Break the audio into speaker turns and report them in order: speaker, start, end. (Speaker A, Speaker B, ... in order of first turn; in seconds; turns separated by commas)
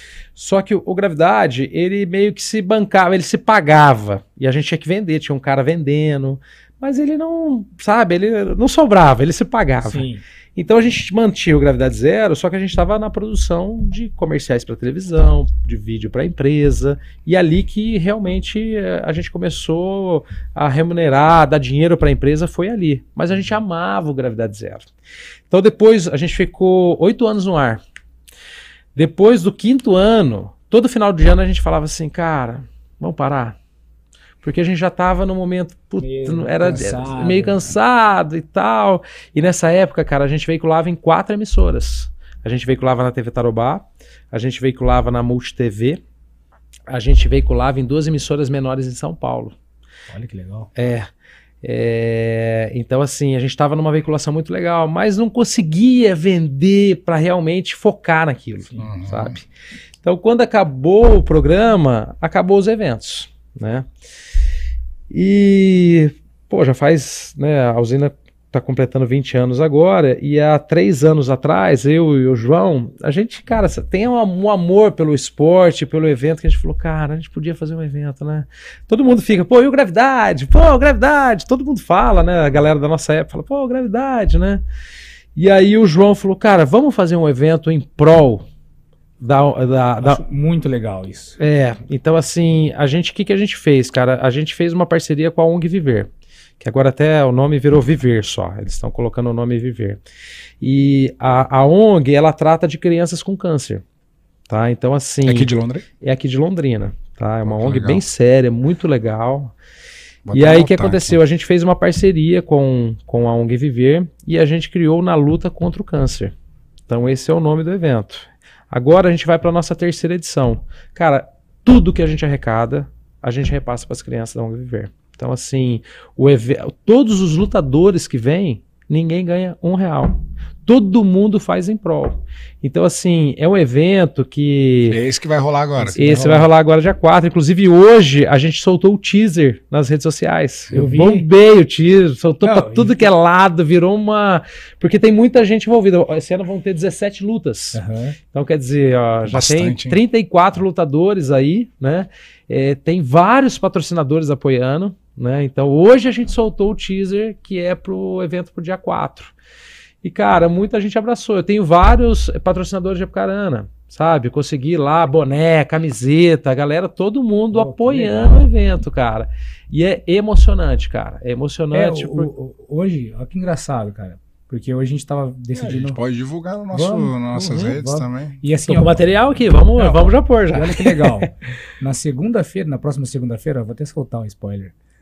Speaker A: 0.3-24.9, Speaker B: 9.8-10.2, Speaker A: 25.5-27.8, Speaker A: 28.9-33.6, Speaker A: 34.4-46.0, Speaker B: 36.0-37.7, Speaker A: 46.9-49.5, Speaker B: 50.1-50.7, Speaker A: 50.8-51.1, Speaker A: 51.6-59.4, Speaker C: 58.8-59.4, Speaker A: 60.0-63.9, Speaker A: 65.1-84.6, Speaker A: 85.3-88.5, Speaker A: 89.2-90.2, Speaker B: 90.0-91.4, Speaker A: 91.4-96.1, Speaker A: 96.6-100.0, Speaker A: 100.6-103.8, Speaker A: 104.5-105.5, Speaker C: 105.2-105.8, Speaker A: 106.0-109.5, Speaker C: 107.4-108.0, Speaker C: 110.2-111.2, Speaker A: 110.3-116.3, Speaker A: 116.9-135.0, Speaker C: 134.8-136.0, Speaker B: 135.8-136.5, Speaker A: 135.9-147.8, Speaker B: 140.7-141.3, Speaker B: 142.4-143.1, Speaker B: 147.7-148.2, Speaker A: 148.3-159.3, Speaker C: 149.3-150.0, Speaker A: 160.0-172.3, Speaker B: 167.5-168.4, Speaker B: 171.7-176.0, Speaker C: 175.5-178.4, Speaker B: 176.7-179.0, Speaker A: 178.6-181.3, Speaker B: 179.8-184.7